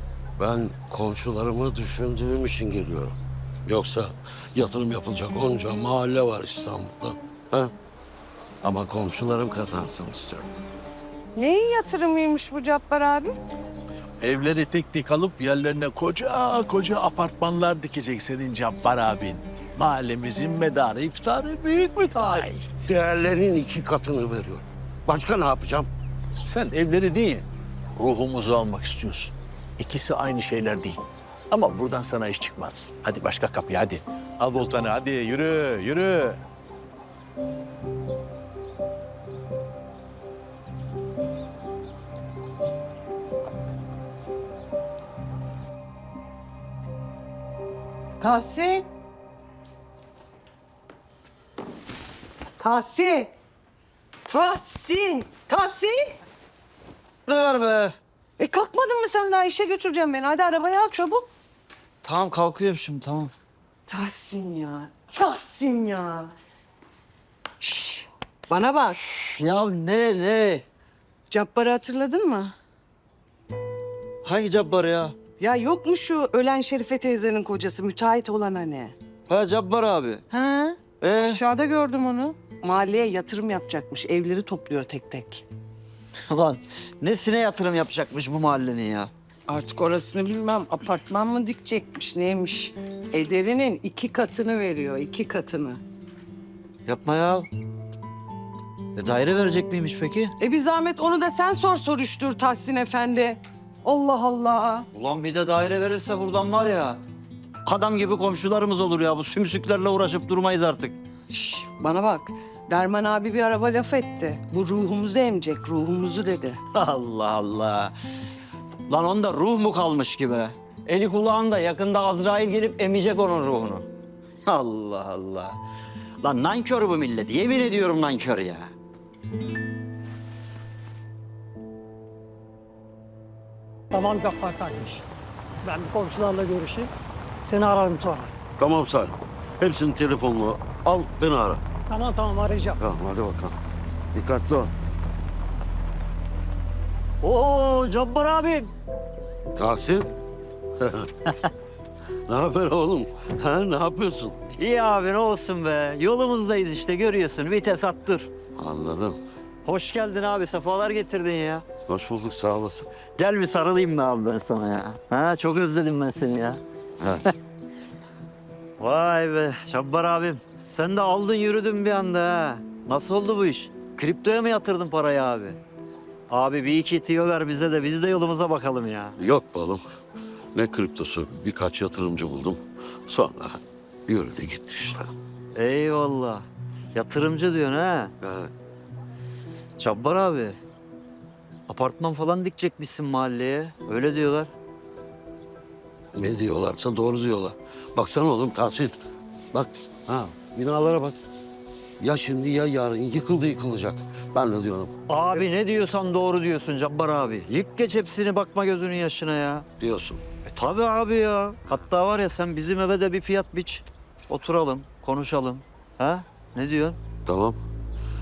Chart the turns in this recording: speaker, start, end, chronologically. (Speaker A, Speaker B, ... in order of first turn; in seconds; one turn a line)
Speaker A: 0.4-7.7
Speaker A: 8.6-10.5
Speaker B: 11.3-13.3
Speaker C: 14.2-22.7
Speaker A: 22.7-25.9
Speaker C: 26.4-27.4
Speaker C: 28.0-31.0
Speaker C: 31.5-36.4
Speaker B: 48.2-48.9
Speaker B: 52.6-53.3
Speaker B: 54.3-56.1
Speaker D: 57.2-58.0
Speaker B: 58.4-61.3
Speaker D: 62.0-63.3
Speaker B: 63.9-66.3
Speaker B: 67.6-69.0
Speaker D: 69.2-70.6
Speaker B: 71.3-72.5
Speaker D: 74.2-75.1
Speaker B: 75.4-78.9
Speaker D: 79.3-80.3
Speaker B: 80.3-85.4
Speaker D: 81.0-81.4
Speaker D: 86.3-89.1
Speaker B: 89.5-95.8
Speaker D: 96.8-97.5
Speaker D: 98.9-100.3
Speaker B: 100.4-104.9
Speaker D: 104.9-107.0
Speaker D: 107.6-111.0
Speaker B: 111.3-116.6
Speaker D: 116.7-117.9
Speaker D: 118.9-123.9
Speaker D: 124.5-125.6
Speaker D: 126.2-128.7
Speaker E: 133.9-135.0
Speaker E: 135.6-136.9
Speaker E: 137.4-138.3
Speaker A: 138.6-141.6
Speaker E: 141.9-142.8
Speaker A: 142.8-143.6
Speaker A: 144.1-144.7
Speaker D: 147.2-148.7
Speaker A: 149.5-150.1
Speaker A: 150.8-151.1
Speaker A: 152.3-154.4
Speaker D: 154.6-158.3
Speaker A: 158.6-159.2
Speaker D: 159.6-161.7
Speaker A: 161.9-162.9
Speaker D: 163.2-166.6
Speaker A: 167.0-167.2
Speaker D: 168.8-175.6
Speaker D: 176.3-179.2
Speaker A: 179.2-179.8
Speaker A: 180.5-185.1
Speaker D: 185.5-188.1
Speaker A: 188.2-188.5
Speaker D: 189.8-190.6
Speaker D: 191.7-194.5
Speaker A: 196.1-198.9
Speaker A: 199.5-201.2
Speaker A: 202.0-205.5
Speaker D: 205.1-209.7
Speaker A: 209.8-210.2
Speaker D: 210.5-217.0
Speaker A: 217.2-217.6